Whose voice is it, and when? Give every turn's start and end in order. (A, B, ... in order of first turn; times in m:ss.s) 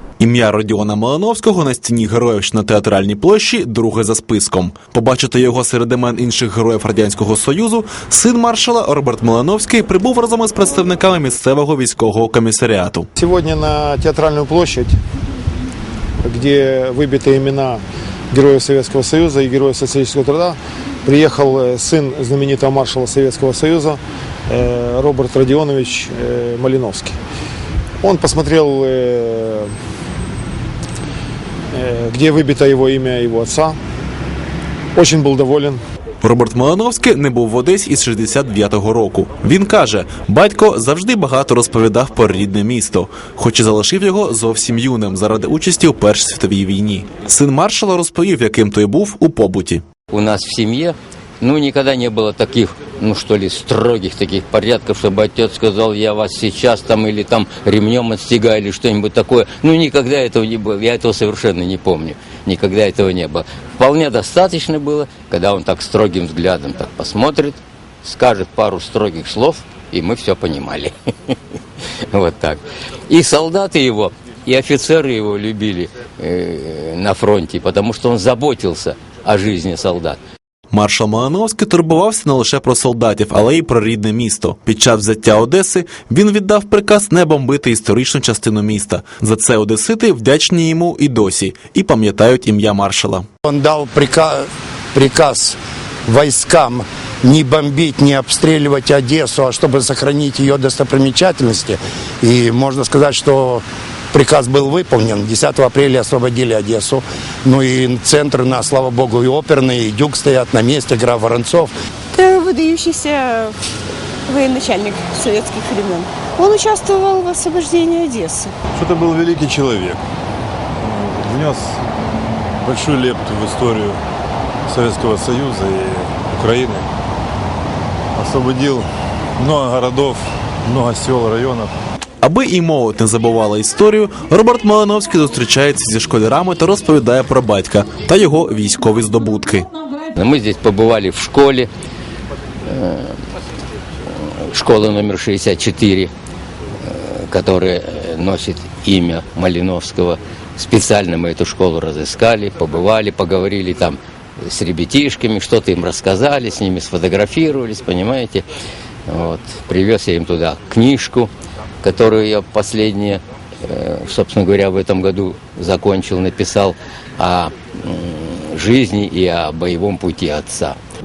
0:00.2-0:13.1 A
0:13.2-0:15.0 B
0:16.2-0:27.2 B
0:28.0-0:29.7 B
0:31.7-0:33.8 B
0:34.9-0:35.8 B
0:36.2-0:49.8 A
0:50.1-1:11.3 C
1:12.1-1:20.2 C
1:20.7-1:33.2 A
1:33.4-1:51.7 D
1:52.1-1:53.5 E
1:54.3-1:58.5 E
1:58.7-2:00.0 F
2:00.8-2:04.0 F
2:04.7-2:06.8 F
2:08.1-2:11.7 F
2:12.2-2:19.7 A
2:20.1-2:21.7 C
2:22.6-2:23.1 C
2:24.5-2:26.1 C
2:26.9-2:38.4 C
2:39.1-2:41.3 C
2:41.8-2:50.8 C